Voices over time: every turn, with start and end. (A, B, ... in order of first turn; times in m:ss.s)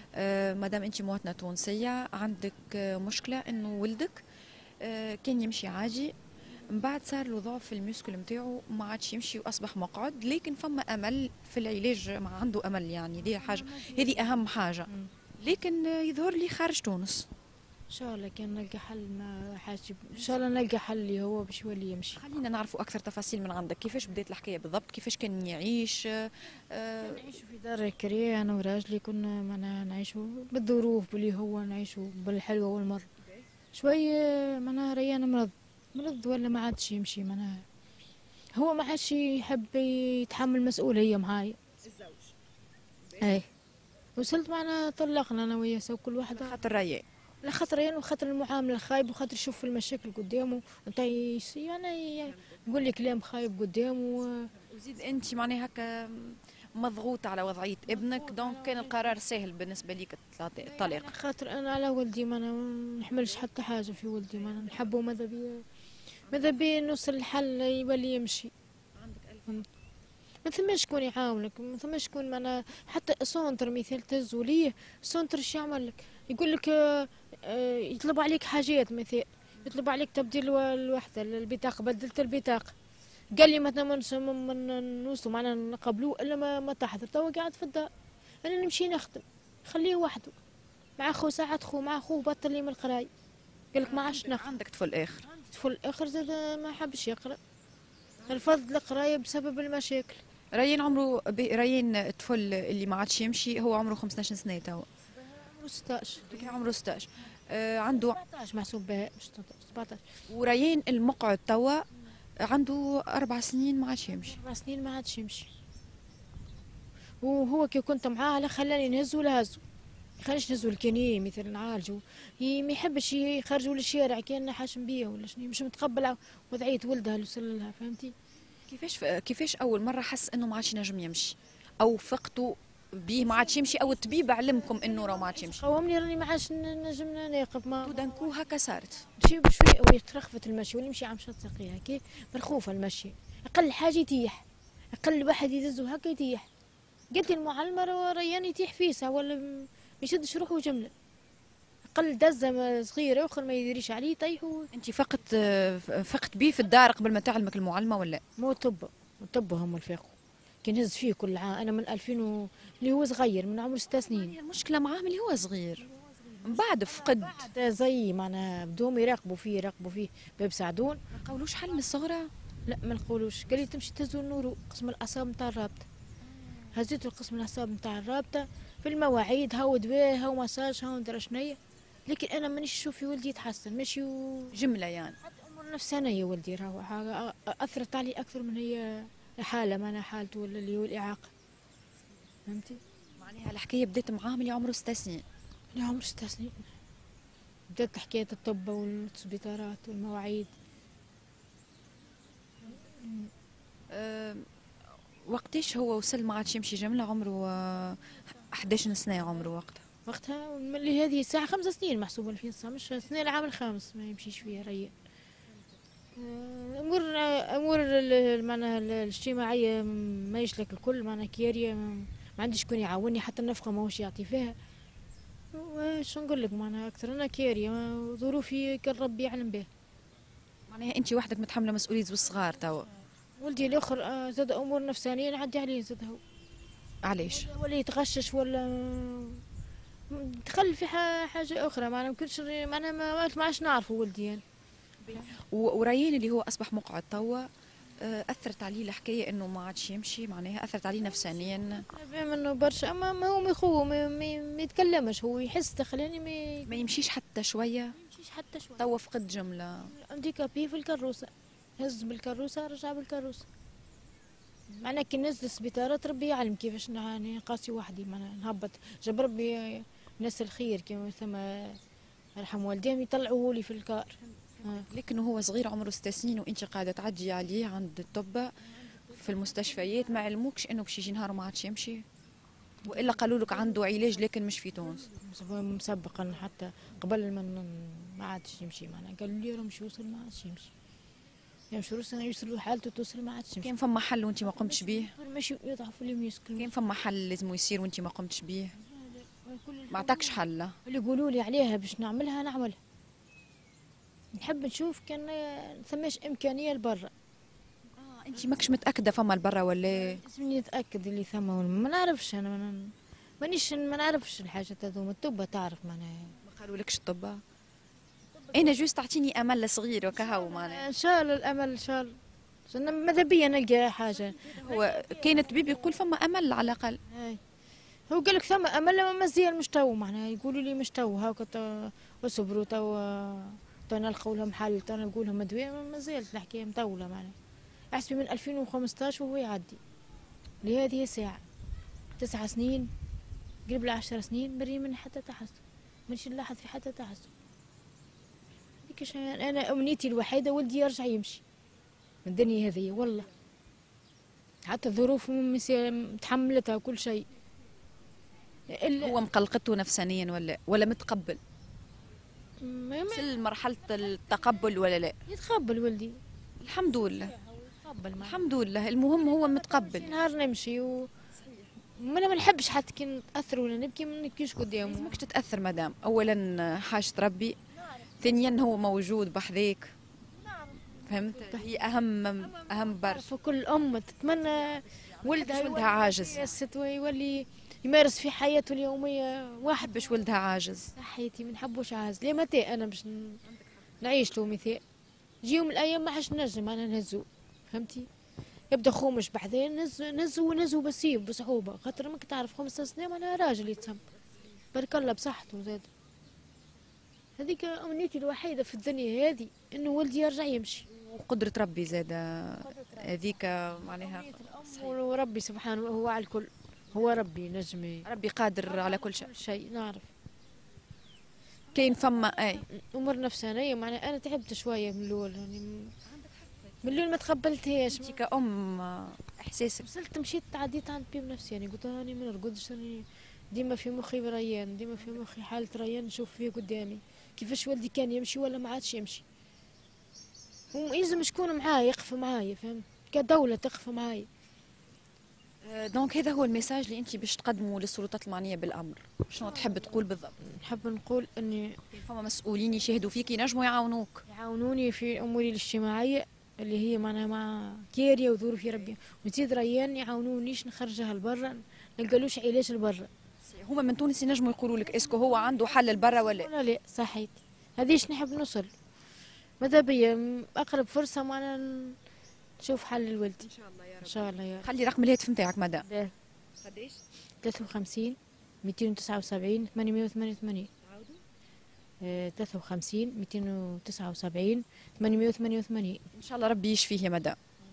0:00.2-0:04.2 A
0:04.8-0:06.1 A
0:06.7-0:14.9 A
0:13.3-0:15.1 B
0:15.4-0:17.2 A
0:17.9-0:22.2 B
0:22.2-0:27.2 A
0:27.0-0:33.1 B
0:33.7-0:37.6 B
0:38.6-0:41.6 B
0:41.8-0:42.3 A
0:43.2-0:43.5 B
0:44.2-0:46.6 B
0:46.3-0:47.0 A
0:47.4-0:54.5 B
0:54.6-1:01.1 A
0:57.9-0:59.2 B
1:00.6-1:05.6 B
1:06.3-1:08.5 B
1:09.0-1:09.7 A
1:10.4-1:22.7 B
1:23.4-1:27.9 B
1:28.4-1:30.4 B
1:31.0-1:33.1 B
1:33.7-1:34.5 B
1:33.8-1:35.3 A
1:35.3-1:37.4 B
1:38.3-1:40.2 B
1:40.6-1:44.9 A
1:45.2-1:46.5 B
1:46.2-1:48.2 A
1:47.9-1:50.0 B
1:50.3-1:51.8 A
1:52.5-1:54.4 A
1:54.1-1:55.5 B
1:57.2-1:59.6 B
2:00.2-2:08.1 B
2:08.7-2:15.6 A
2:13.2-2:18.1 B
2:17.8-2:19.1 A
2:19.2-2:24.4 B
2:25.0-2:26.5 B
2:27.1-2:30.9 B
2:31.9-2:34.7 B
2:34.7-2:38.2 A
2:38.4-2:44.3 B
2:44.0-2:45.9 A
2:46.0-2:51.0 B
2:46.4-2:47.5 A
2:51.1-2:52.3 A
2:52.7-2:55.8 B
2:56.7-3:04.6 B
3:04.5-3:05.2 A
3:05.2-3:11.3 B
3:12.5-3:12.8 B
3:13.2-3:15.2 A
3:15.7-3:16.6 B
3:17.7-3:20.5 B
3:22.9-3:23.3 B
3:23.9-3:24.4 A
3:25.3-3:29.8 A
3:30.1-3:34.9 B
3:36.2-3:44.6 B
3:45.5-3:49.7 B
3:50.7-3:52.9 A
3:53.4-3:56.2 B
3:57.0-3:57.5 A
3:57.2-3:59.4 B
4:00.1-4:04.4 B
4:05.0-4:07.5 A
4:08.0-4:11.9 A
4:11.6-4:16.8 B
4:16.7-4:18.0 A
4:17.9-4:18.9 B
4:18.8-4:19.9 A
4:19.9-4:23.5 B
4:24.8-4:31.8 B
4:32.4-4:34.9 B
4:34.4-4:38.5 A
4:39.1-4:42.0 A
4:42.8-4:43.9 B
4:42.9-4:45.1 A
4:45.1-4:50.7 B
4:51.7-4:53.7 B
4:53.6-4:55.1 A
4:54.4-4:56.7 B
4:56.6-4:58.7 A
4:58.8-5:02.8 B
4:59.9-5:00.8 A
5:04.3-5:07.1 B
5:08.0-5:10.2 A
5:09.9-5:16.4 B
5:16.4-5:17.4 A
5:18.4-5:18.8 B
5:18.5-5:20.9 A
5:20.1-5:22.2 B
5:22.7-5:26.0 B
5:24.3-5:27.0 A
5:27.1-5:27.4 B
5:28.1-5:37.4 B
5:37.9-5:39.8 B
5:40.6-5:41.4 B
5:42.2-5:42.9 B
5:43.7-5:47.3 B
5:48.8-5:51.4 B
5:52.2-5:53.3 B
5:54.7-5:57.3 B
5:58.7-5:59.2 B
5:59.0-6:01.4 A
6:02.6-6:03.3 B
6:03.1-6:05.2 A
6:05.3-6:06.2 B
6:06.6-6:07.4 A
6:07.4-6:08.4 B
6:08.2-6:10.2 A
6:09.3-6:11.1 B
6:11.4-6:11.7 A
6:12.0-6:15.2 B
6:14.8-6:17.6 A
6:18.2-6:19.9 A
6:20.4-6:21.8 B
6:21.0-6:23.3 A
6:22.5-6:30.3 B
6:24.9-6:26.6 A
6:29.8-6:30.9 A
6:31.0-6:33.4 B
6:33.5-6:34.0 A
6:34.0-6:34.8 B
6:35.4-6:38.1 B
6:38.7-6:44.0 B
6:44.7-6:45.9 B
6:47.4-6:50.9 B
6:50.9-6:55.0 A
6:52.6-6:58.1 B
6:58.1-6:59.3 A
6:58.7-7:00.1 B
7:01.7-7:02.6 A
7:02.7-7:05.9 B
7:06.1-7:07.0 A
7:06.8-7:08.2 B
7:07.9-7:09.9 A
7:09.8-7:19.2 B
7:20.7-7:24.3 B
7:25.6-7:30.3 A
7:29.4-7:31.8 B
7:31.9-7:34.2 A
7:34.3-7:43.1 B
7:38.7-7:38.9 A
7:43.4-7:46.5 A
7:44.9-7:48.7 B
7:49.6-7:52.0 B
7:52.6-7:53.5 B
7:53.4-7:55.9 A
7:54.0-7:54.7 B
7:55.8-7:56.1 B
7:56.6-7:57.0 A
7:57.4-8:00.7 B
8:00.8-8:01.2 A
8:02.0-8:06.0 B
8:06.1-8:07.4 A